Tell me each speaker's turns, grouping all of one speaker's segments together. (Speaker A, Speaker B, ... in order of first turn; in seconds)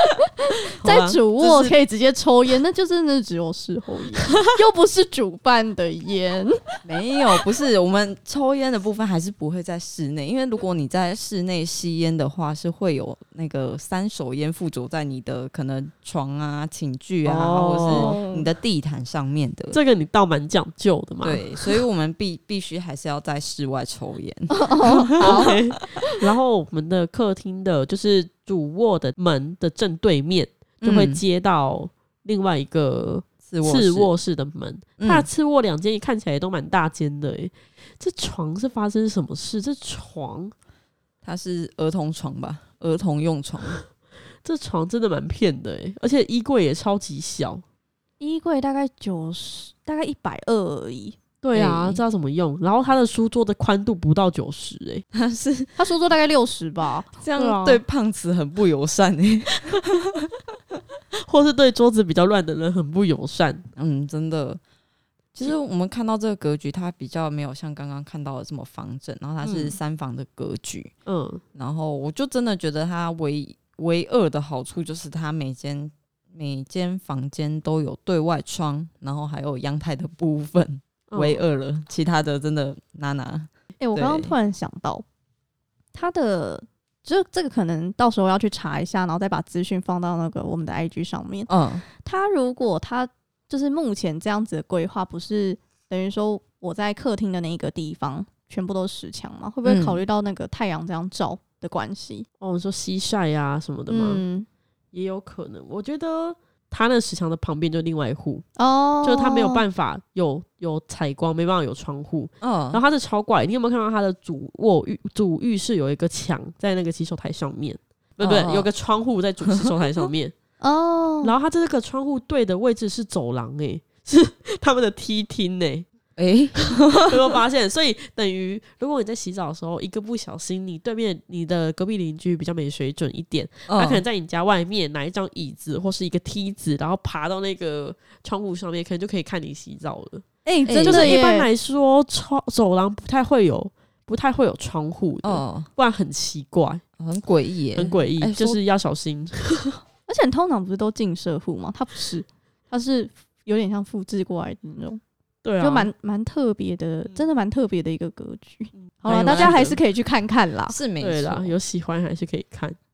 Speaker A: 0.5-6.6, 17.9-18.5, 24.5-25.6, 48.2-51.2, 55.8-57.1, 83.8-85.0, 85.9-102.3, 103.9-104.5, 108.6-109.6, 120.6-121.3, 140.4-141.5, 150.1-155.0, 155.6-160.8
Speaker B: 0.8-1.2, 17.2-18.2, 19.7-21.4, 25.2-40.5, 44.4-47.6, 51.4-55.0, 57.4-57.8, 61.2-63.7, 69.4-69.8, 71.0-71.4, 81.1-81.4, 102.4-104.2, 104.9-108.4, 109.0-120.3, 121.2-125.9, 126.9-140.2, 140.8-146.8, 147.8-149.7, 155.4-155.9, 159.1-159.8, 161.0-162.8
Speaker C: 1.4-1.7, 6.8-19.8, 21.2-25.5, 30.8-31.2, 33.4-34.1, 35.0-35.3, 41.2-43.8, 51.5-52.0, 55.1-55.7, 57.2-60.3, 63.8-64.6, 65.3-70.9, 71.5-84.3, 91.5-91.8, 99.6-100.0, 112.4-112.8, 118.2-118.7, 119.5-119.7, 126.2-127.4, 133.7-134.0, 140.6-141.2, 145.2-145.7, 147.0-148.6, 159.1-159.7, 160.7-161.5